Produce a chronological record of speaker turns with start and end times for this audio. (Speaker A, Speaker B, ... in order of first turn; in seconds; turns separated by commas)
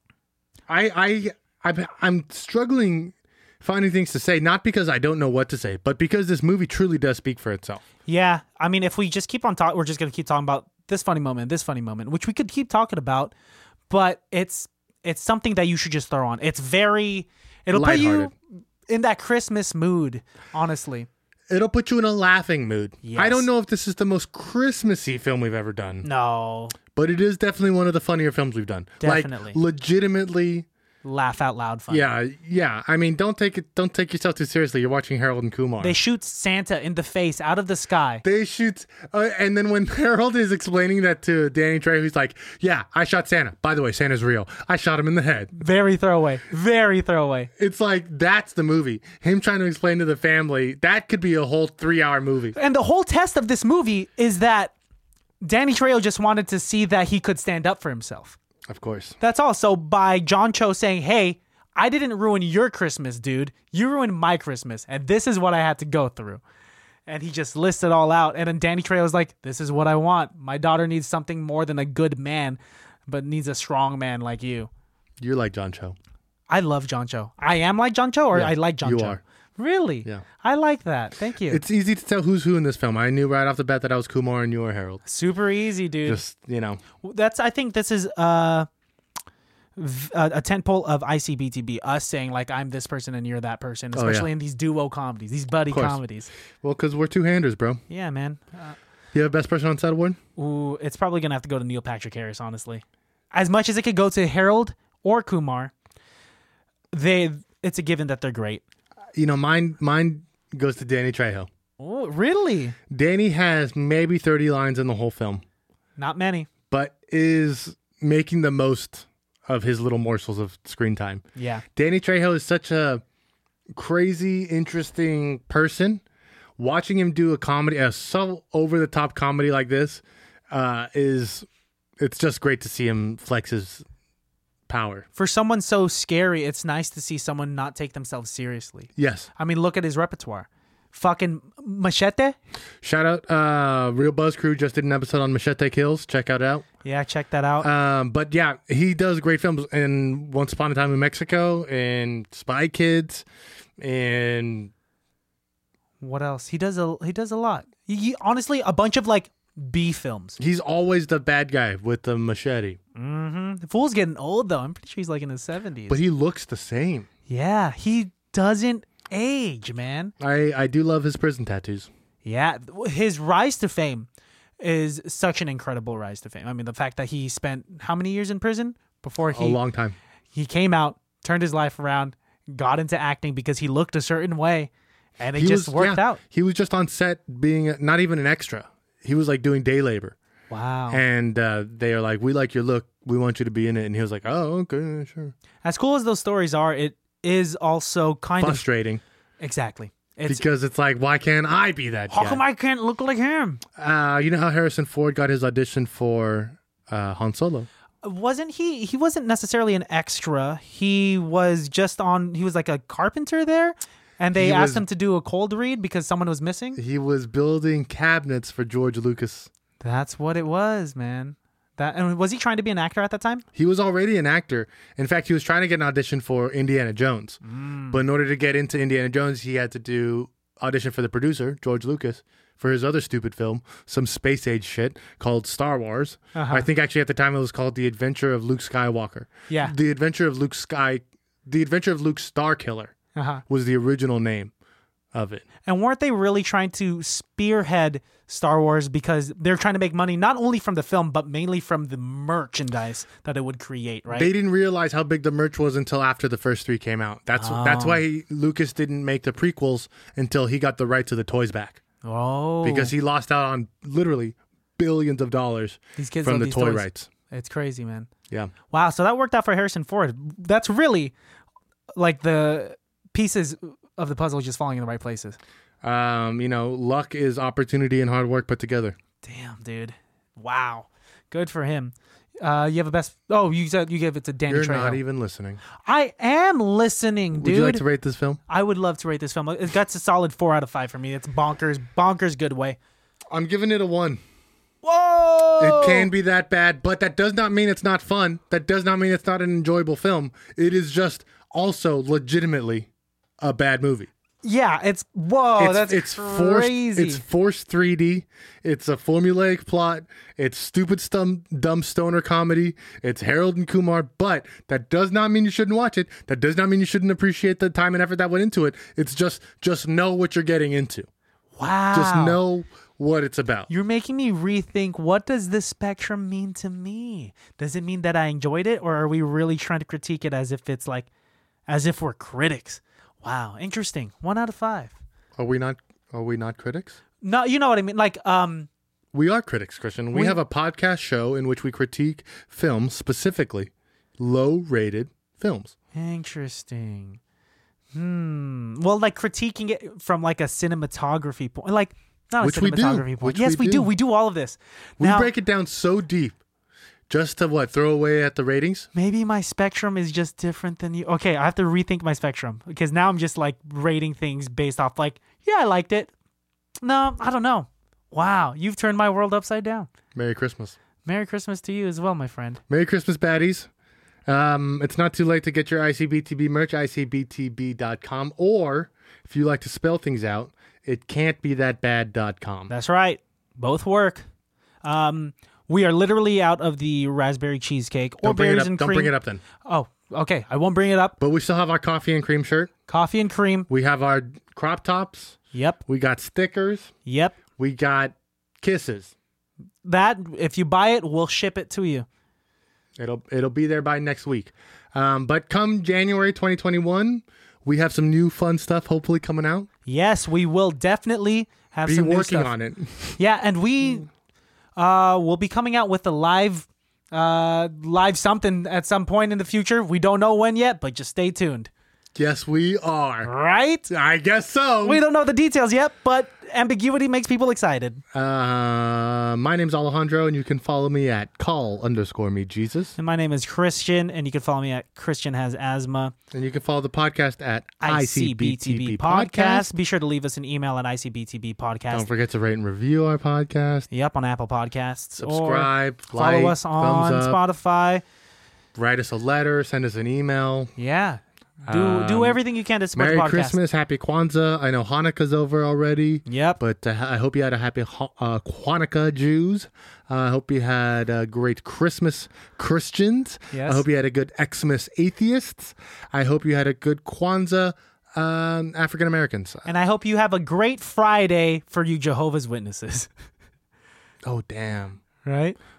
Speaker A: 0.7-7.8, Speaker B: 8.1-13.3, Speaker B: 13.9-18.3, Speaker A: 17.7-18.3, Speaker B: 18.9-21.1, Speaker A: 21.5-26.1, Speaker B: 23.0-23.5, Speaker B: 26.0-26.8, Speaker A: 26.9-30.7, Speaker B: 29.0-29.6, Speaker B: 31.0-32.1, Speaker A: 31.9-36.0, Speaker B: 35.8-38.2, Speaker A: 38.2-45.5, Speaker B: 45.5-47.5, Speaker A: 47.6-52.5, Speaker B: 52.5-54.7, Speaker B: 55.4-58.4, Speaker A: 58.7-59.2, Speaker B: 59.2-66.4, Speaker B: 67.1-74.7, Speaker A: 75.2-76.0, Speaker B: 76.5-81.6, Speaker A: 78.3-79.2, Speaker A: 81.4-85.0, Speaker B: 85.0-86.2, Speaker A: 86.1-86.8, Speaker B: 87.0-88.7, Speaker B: 89.8-96.3, Speaker A: 93.9-94.3, Speaker A: 95.7-96.0, Speaker A: 96.6-97.8, Speaker B: 97.9-98.8, Speaker A: 99.1-100.2, Speaker B: 100.4-105.7, Speaker B: 106.9-108.6, Speaker A: 109.2-111.5, Speaker B: 111.8-112.8, Speaker A: 112.9-115.4, Speaker B: 116.0-116.5, Speaker A: 116.7-121.2, Speaker B: 121.4-121.6, Speaker A: 121.8-123.0, Speaker A: 123.7-126.0, Speaker A: 126.6-131.5, Speaker A: 132.0-133.8, Speaker A: 134.7-135.1, Speaker B: 135.2-142.4, Speaker A: 139.0-139.3, Speaker A: 142.8-146.7, Speaker B: 146.8-147.7, Speaker A: 147.6-153.3, Speaker A: 153.8-154.7, Speaker B: 156.0-160.4, Speaker A: 160.4-162.8, Speaker B: 162.9-166.0, Speaker A: 165.9-167.1, Speaker B: 167.3-170.1, Speaker A: 170.2-171.9, Speaker B: 172.2-174.1, Speaker B: 174.6-179.6, Speaker A: 179.3-180.0, Speaker B: 180.3-186.2, Speaker A: 185.4-190.2, Speaker B: 190.5-191.0, Speaker A: 190.9-195.3, Speaker B: 195.6-198.7, Speaker A: 198.4-199.0, Speaker B: 199.4-200.4, Speaker A: 200.3-202.4, Speaker B: 202.1-203.6, Speaker A: 203.8-207.7, Speaker B: 208.0-216.8, Speaker A: 214.3-214.8, Speaker A: 216.8-219.5, Speaker B: 219.8-223.4, Speaker A: 223.6-227.4, Speaker B: 227.4-228.0, Speaker A: 227.9-242.9, Speaker B: 236.3-236.7, Speaker B: 239.5-239.7, Speaker B: 243.2-243.4, Speaker A: 243.5-244.5, Speaker A: 245.1-245.5, Speaker B: 245.7-254.3, Speaker A: 254.1-261.8, Speaker B: 257.4-258.0, Speaker B: 262.0-262.9, Speaker A: 262.6-267.1, Speaker B: 266.0-268.1, Speaker B: 268.7-271.1, Speaker B: 272.0-275.4, Speaker A: 275.8-279.0, Speaker B: 279.2-285.0, Speaker A: 284.5-285.6, Speaker B: 285.9-287.8, Speaker A: 287.4-288.4, Speaker B: 288.5-292.8, Speaker A: 293.3-294.2, Speaker B: 294.8-296.1, Speaker A: 295.6-302.9, Speaker A: 303.4-304.1, Speaker B: 304.4-307.2, Speaker A: 305.6-321.1, Speaker B: 321.6-322.4, Speaker A: 321.9-323.7, Speaker B: 323.7-331.1, Speaker B: 331.7-335.0, Speaker A: 335.4-337.0, Speaker B: 337.2-338.7, Speaker A: 339.1-345.7, Speaker B: 345.9-347.2, Speaker B: 347.9-355.3, Speaker A: 352.4-353.9, Speaker A: 355.0-356.4, Speaker A: 357.1-358.9, Speaker B: 358.9-366.1, Speaker B: 366.8-369.9, Speaker A: 370.1-370.8, Speaker B: 371.1-372.6, Speaker A: 372.7-373.7, Speaker A: 374.3-382.7, Speaker B: 382.7-384.2, Speaker B: 384.8-389.1, Speaker A: 388.2-389.4, Speaker B: 389.6-391.2, Speaker A: 391.2-392.7, Speaker B: 392.9-393.7, Speaker A: 393.7-396.9, Speaker B: 395.5-395.8, Speaker B: 397.1-397.4, Speaker A: 397.6-399.1, Speaker B: 399.8-402.1, Speaker A: 403.0-409.7, Speaker B: 409.9-412.5, Speaker A: 411.9-413.2, Speaker B: 413.2-414.1, Speaker B: 414.8-421.7, Speaker A: 422.2-423.3, Speaker B: 423.2-423.9, Speaker A: 423.9-425.0, Speaker B: 424.8-428.0, Speaker A: 428.1-432.9, Speaker B: 433.0-436.1, Speaker A: 436.3-439.7, Speaker B: 437.8-442.1, Speaker A: 441.9-443.9, Speaker B: 443.9-448.0, Speaker A: 445.2-447.4, Speaker A: 448.8-450.7, Speaker B: 450.8-453.6, Speaker A: 451.7-452.4, Speaker A: 452.9-469.7, Speaker B: 456.3-456.6, Speaker B: 463.5-463.8, Speaker B: 469.7-473.1, Speaker A: 474.2-475.0, Speaker B: 475.2-475.6